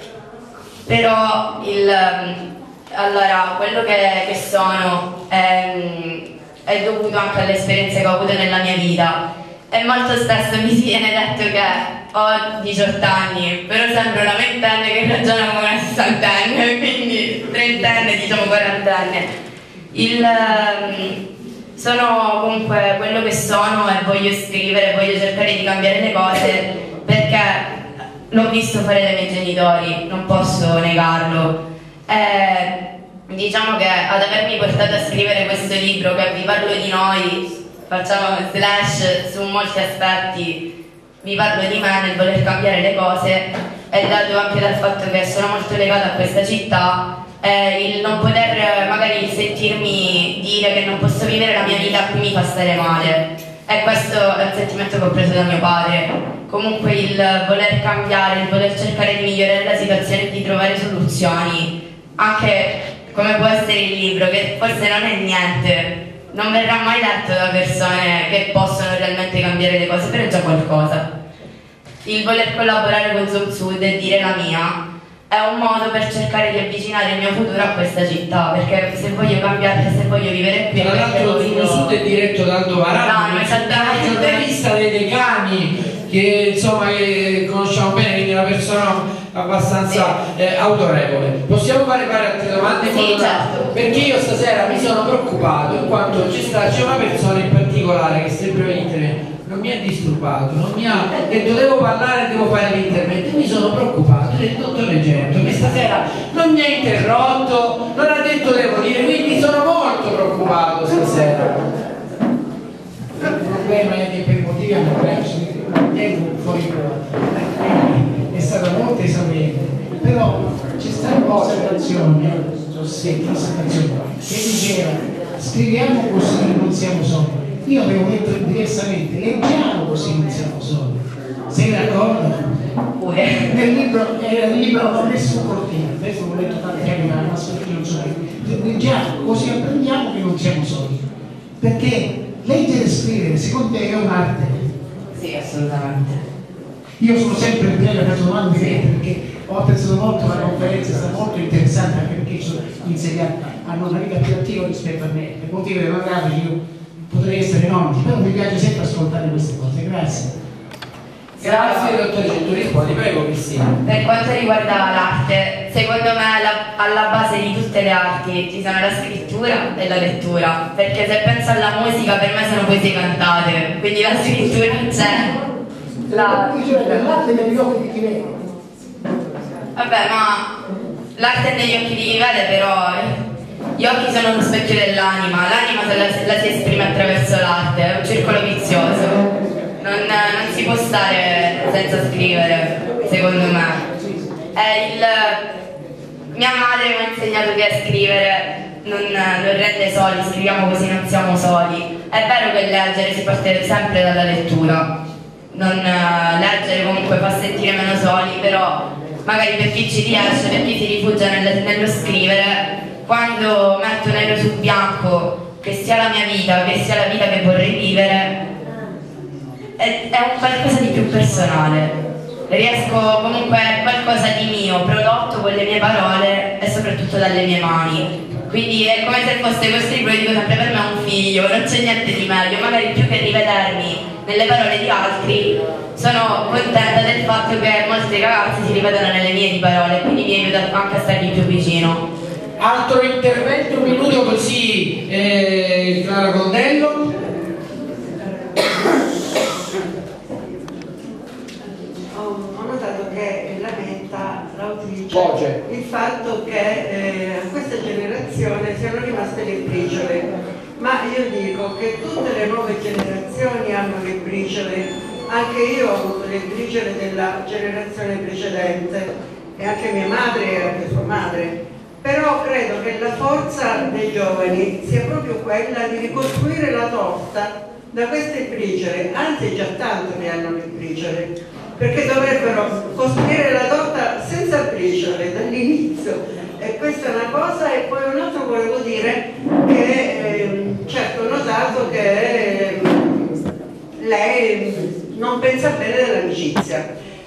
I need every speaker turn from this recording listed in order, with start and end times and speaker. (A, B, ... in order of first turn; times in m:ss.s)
0:00.9-0:19.3 A
0:19.9-0:21.2 A
0:21.8-0:27.7 A
0:28.3-0:32.7 A
0:33.3-0:40.6 A
0:41.2-1:11.1 A
1:12.0-1:14.8 A
1:15.3-1:22.0 A
1:20.7-1:51.6 B
1:23.0-1:24.5 A
1:29.9-1:30.2 A
1:32.9-1:33.7 A
1:53.2-2:12.6 C
2:13.0-2:13.5 A
2:13.5-2:21.0 C
2:21.6-2:24.7 C
2:25.2-2:26.2 A
2:27.0-2:40.4 C
2:28.5-2:28.8 A
2:41.4-2:43.8 B
2:41.4-2:42.0 A
2:43.8-2:55.4 A
2:56.1-2:58.3 C
2:56.1-2:57.2 A
2:59.8-3:00.5 A
3:01.2-3:03.2 A
3:03.8-3:09.2 A
3:09.8-3:13.8 A
3:14.5-3:15.4 A
3:16.3-3:24.9 A
3:25.5-3:38.3 A
3:39.8-3:41.9 A
3:42.5-4:02.0 A
4:02.6-4:07.1 B
4:12.1-4:53.4 D
4:15.1-4:15.6 B
4:54.0-4:56.9 D